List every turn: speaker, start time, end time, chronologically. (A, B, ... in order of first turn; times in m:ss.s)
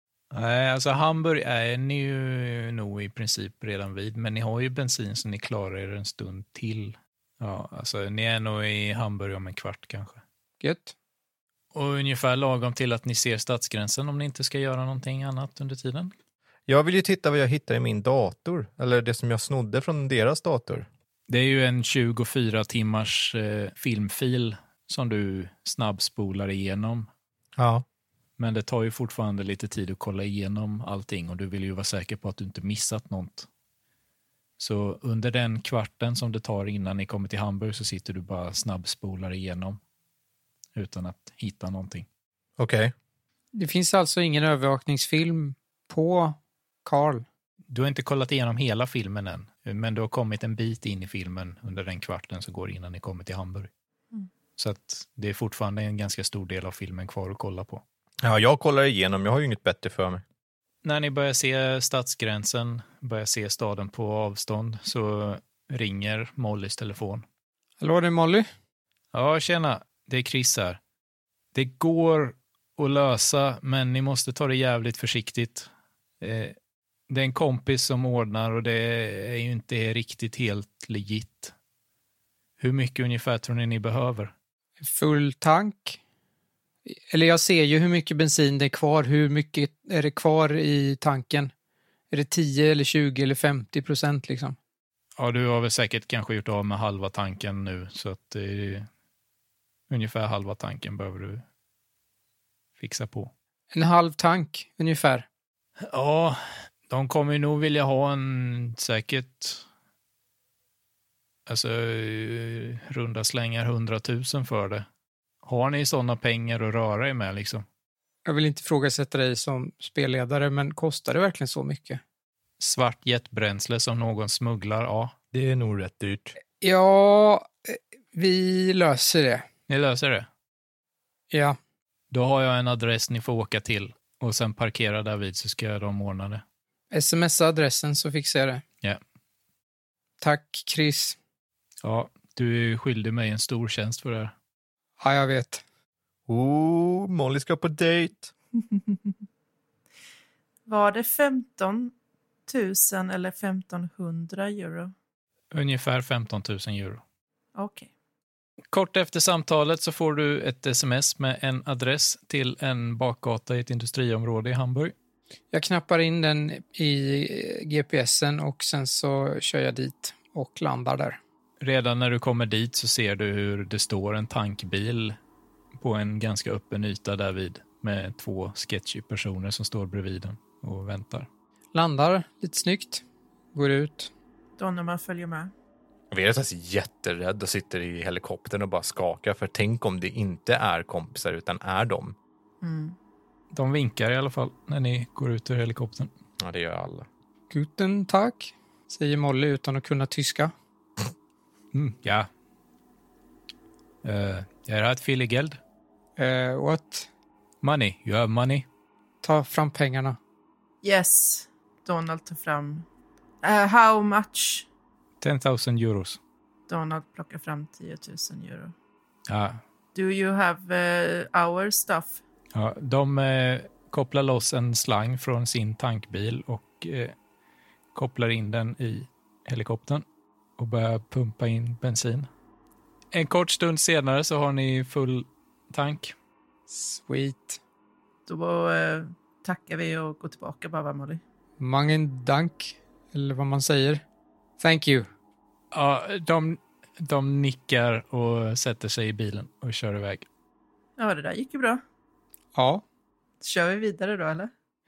0:00.3-0:10.2 A
0:10.6-0:10.9 B
0:11.7-0:16.1 A
0:16.7-0:20.9 C
0:21.3-0:27.1 A
0:27.6-0:27.8 C
0:28.4-0:33.5 A
0:34.6-0:39.8 A
0:40.7-0:42.0 A
0:42.6-0:42.9 C
0:43.5-0:47.2 B
0:47.7-0:53.7 A
0:54.6-0:57.8 A
0:58.2-1:00.2 C
1:00.8-1:07.2 A
1:07.8-1:08.5 B
1:09.1-1:10.8 A
1:11.5-1:15.7 A
1:16.2-1:16.5 A
1:17.1-1:21.5 A
1:22.6-1:24.3 A
1:24.8-1:26.0 B
1:26.8-1:31.5 B
1:32.1-1:34.6 B
1:35.2-1:38.9 A
1:39.9-1:41.4 A
1:42.8-1:43.3 A
1:43.7-1:45.2 B
1:45.8-1:49.6 A
1:51.5-1:54.8 A
1:55.4-1:57.6 A
1:58.2-2:02.0 B
2:02.6-2:05.1 A
2:05.3-2:06.4 C
2:06.6-2:09.4 B
2:09.7-2:10.3 A
2:11.3-2:11.6 B
2:12.1-2:16.4 A
2:16.9-2:18.6 B
2:20.2-2:21.2 B
2:21.8-2:24.3 A
2:25.0-2:25.6 B
2:26.3-2:28.3 C
2:30.7-2:31.9 D
2:32.5-2:34.9 D
2:35.5-2:37.0 A
2:37.6-2:37.9 D
2:38.7-2:44.9 A
2:45.5-2:51.2 B
2:51.6-2:55.2 A
2:55.8-3:01.3 A
3:01.7-3:03.0 B
3:03.5-3:04.1 B
3:04.6-3:05.5 D
3:06.1-3:12.1 C
3:12.6-3:13.0 D
3:13.5-3:16.1 A
3:16.4-3:17.1 C
3:17.5-3:20.5 B
3:21.7-3:22.3 A
3:24.0-3:25.6 A
3:26.2-3:27.1 B
3:27.6-3:28.6 A
3:29.2-3:30.2 B
3:30.8-3:32.8 D
3:33.4-3:34.6 D
3:35.2-3:36.2 A
3:36.7-3:38.7 D
3:39.3-3:39.6 A
3:39.9-3:42.2 D
3:42.5-3:47.1 A
3:47.9-3:50.0 A
3:50.6-3:52.3 A
3:53.1-3:56.1 A
3:56.7-3:57.6 B
3:58.3-4:01.2 D
4:01.6-4:04.0 B
4:04.6-4:05.1 B
4:05.7-4:10.2 A
4:11.0-4:11.8 D
4:12.5-4:12.8 B
4:13.4-4:14.5 D